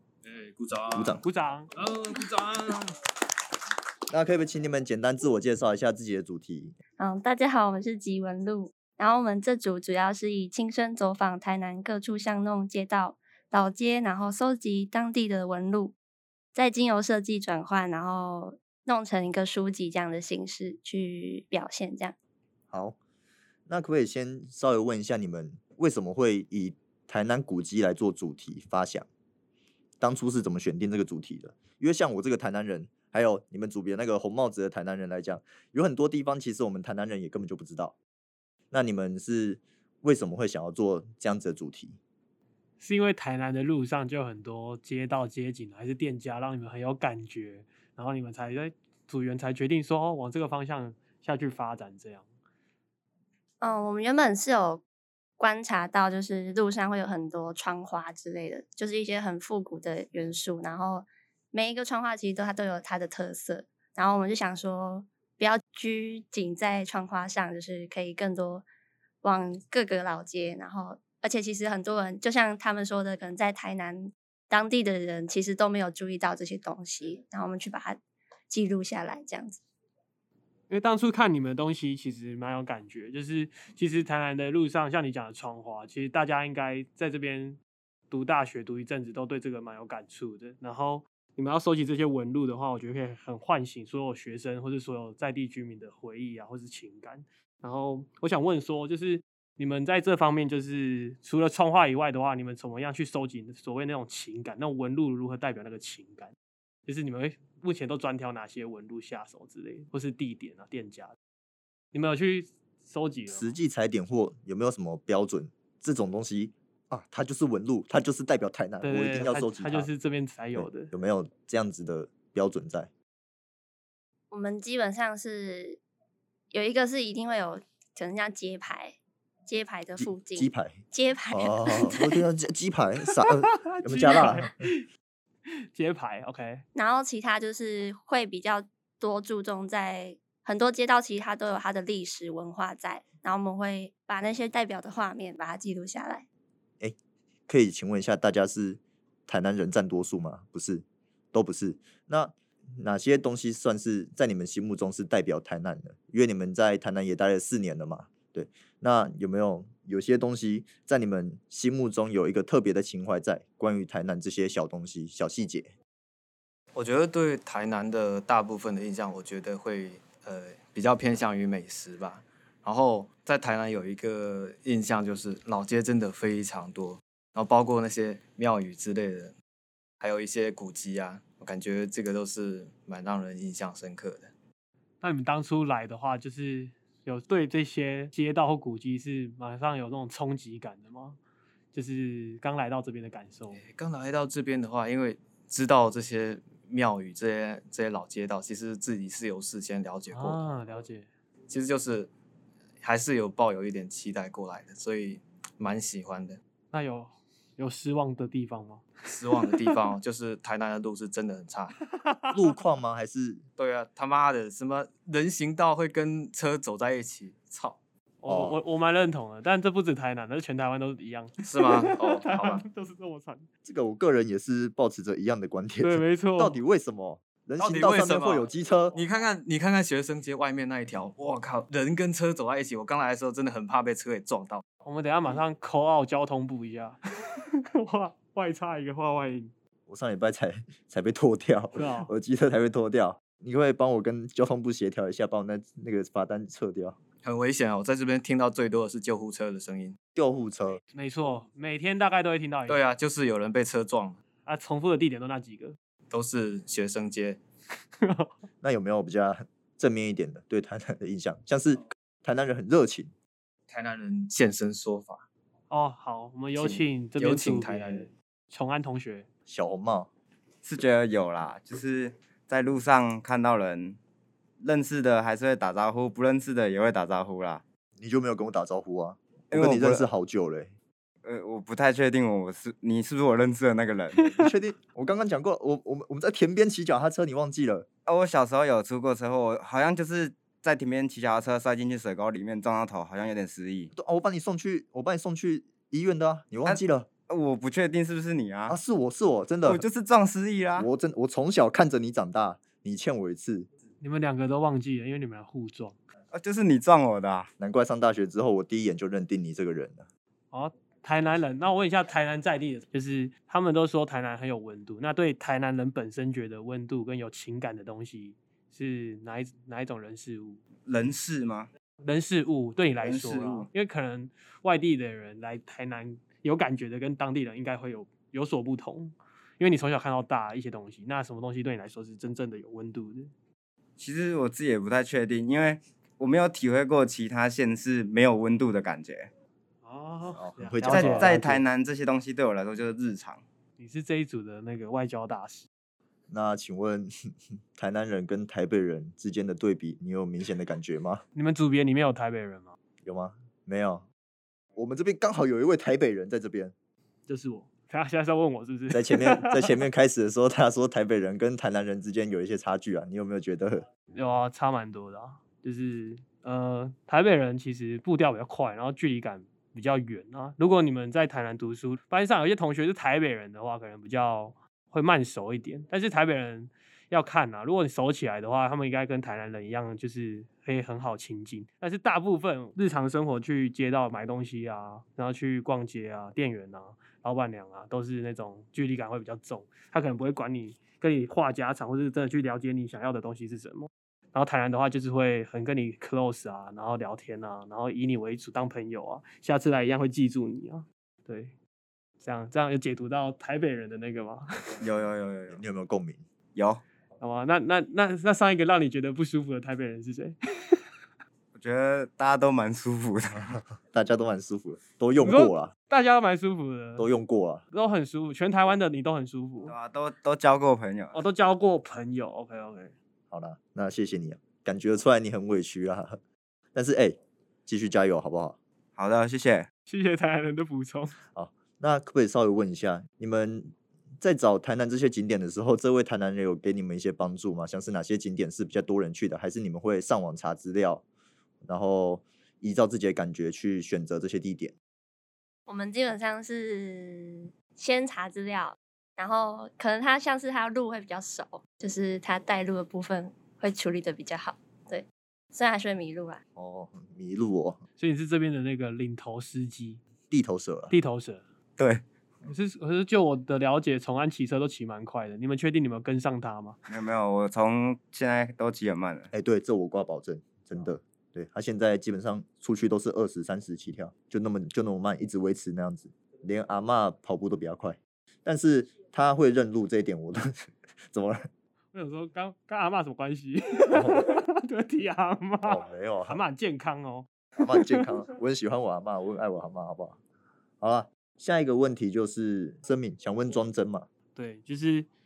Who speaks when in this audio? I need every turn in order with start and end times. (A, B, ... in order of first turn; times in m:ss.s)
0:00.2-0:01.2 A
0:00.9-0:01.2 B
0:01.2-0:01.7 C
0:01.8-0:03.0 A
0:04.1-0:06.8 B
0:07.0-0:16.0 D
0:16.6-0:22.2 D
0:22.7-0:23.0 B
0:23.7-0:29.1 B
0:30.0-0:38.0 B
0:38.7-0:42.0 B
0:42.8-0:52.2 C
0:53.6-0:54.8 D
0:55.4-1:08.7 D
1:09.2-1:19.6 D
1:20.7-1:27.6 C
1:28.1-1:46.3 C
1:46.9-1:51.2 C
1:51.9-1:53.5 C
1:53.3-1:59.9 B
1:58.8-2:00.9 C
2:00.6-2:02.9 B
2:04.3-2:05.8 D
2:06.5-2:12.1 D
2:10.0-2:14.7 B
2:13.4-2:14.9 C
2:15.7-2:16.6 C
2:16.8-2:26.2 D
2:27.5-2:45.7 B
2:46.8-2:59.3 A
3:00.0-3:04.3 A
3:05.0-3:11.2 C
3:11.7-3:13.6 C
3:13.6-3:20.4 A
3:20.1-3:21.1 C
3:21.5-3:22.1 A
3:22.8-3:26.4 A
3:26.7-3:28.9 C
3:29.1-3:31.8 A
3:32.0-3:32.4 C
3:32.3-3:33.4 B
3:33.6-3:37.8 A
3:38.2-3:43.5 C
3:38.3-3:38.6 B
3:41.4-3:42.6 A
3:43.6-3:49.0 B
3:45.8-3:46.6 C
3:47.6-3:54.6 A
3:54.8-3:57.0 C
3:57.5-3:59.5 C
3:59.9-4:07.0 B
4:01.8-4:02.1 C
4:07.2-4:10.0 A
4:10.2-4:10.8 B
4:10.9-4:12.8 C
4:12.7-4:14.2 A
4:14.5-4:15.8 C
4:16.1-4:17.4 A
4:18.0-4:18.3 C
4:18.6-4:23.1 B
4:23.7-4:25.3 A
4:25.7-4:29.3 C
4:26.6-4:28.1 A
4:29.5-4:30.1 B
4:30.6-4:34.0 E
4:34.6-4:37.6 E
4:38.0-4:40.7 B
4:39.5-4:40.1 E
4:41.2-4:44.3 E
4:44.3-4:47.9 B
4:48.1-4:53.9 E
4:53.9-4:57.1 B
4:56.7-4:58.8 E
4:58.7-4:59.8 B
4:59.6-5:00.9 E
5:00.8-5:03.7 B
5:04.0-5:06.0 C
5:06.3-5:07.5 E
5:07.6-5:10.1 B
5:10.5-5:20.6 C
5:20.8-5:21.7 E
5:22.0-5:33.3 C
5:23.0-5:23.7 E
5:34.0-5:39.3 E
5:39.8-5:41.6 C
5:40.4-5:41.6 B
5:40.9-5:43.4 E
5:43.8-5:45.7 C
5:46.3-5:47.1 B
5:47.8-5:51.2 B
5:51.4-5:52.8 C
5:53.0-5:54.0 B
5:54.8-5:56.7 B
5:57.3-5:59.8 C
5:58.9-6:03.9 B
6:04.1-6:41.5 C
6:42.2-6:44.8 C
6:44.8-6:45.6 E
6:45.5-6:46.2 B
6:46.6-6:46.8 E
6:47.2-6:50.8 C
6:51.5-6:53.6 E
6:53.9-6:55.7 B
6:55.2-6:57.1 C
6:57.0-6:57.6 B
6:57.7-6:59.7 C
6:59.7-7:01.2 E
7:01.1-7:02.9 C
7:03.3-7:06.2 B
7:06.7-7:08.6 B
7:09.0-7:09.7 E
7:09.9-7:11.2 C
7:11.3-7:21.0 B
7:21.6-7:24.7 B
7:25.7-7:36.4 D
7:36.6-7:37.8 B
7:38.0-7:40.0 C
7:40.3-7:40.9 B
7:40.9-7:41.4 C
7:41.8-7:42.0 E
7:42.5-7:46.8 C
7:46.9-7:49.3 E
7:49.3-8:01.5 B
8:01.9-8:08.2 C
8:03.9-8:04.3 B
8:05.6-8:06.4 B
8:07.6-8:10.2 B
8:10.8-8:14.1 B
8:14.4-8:15.1 C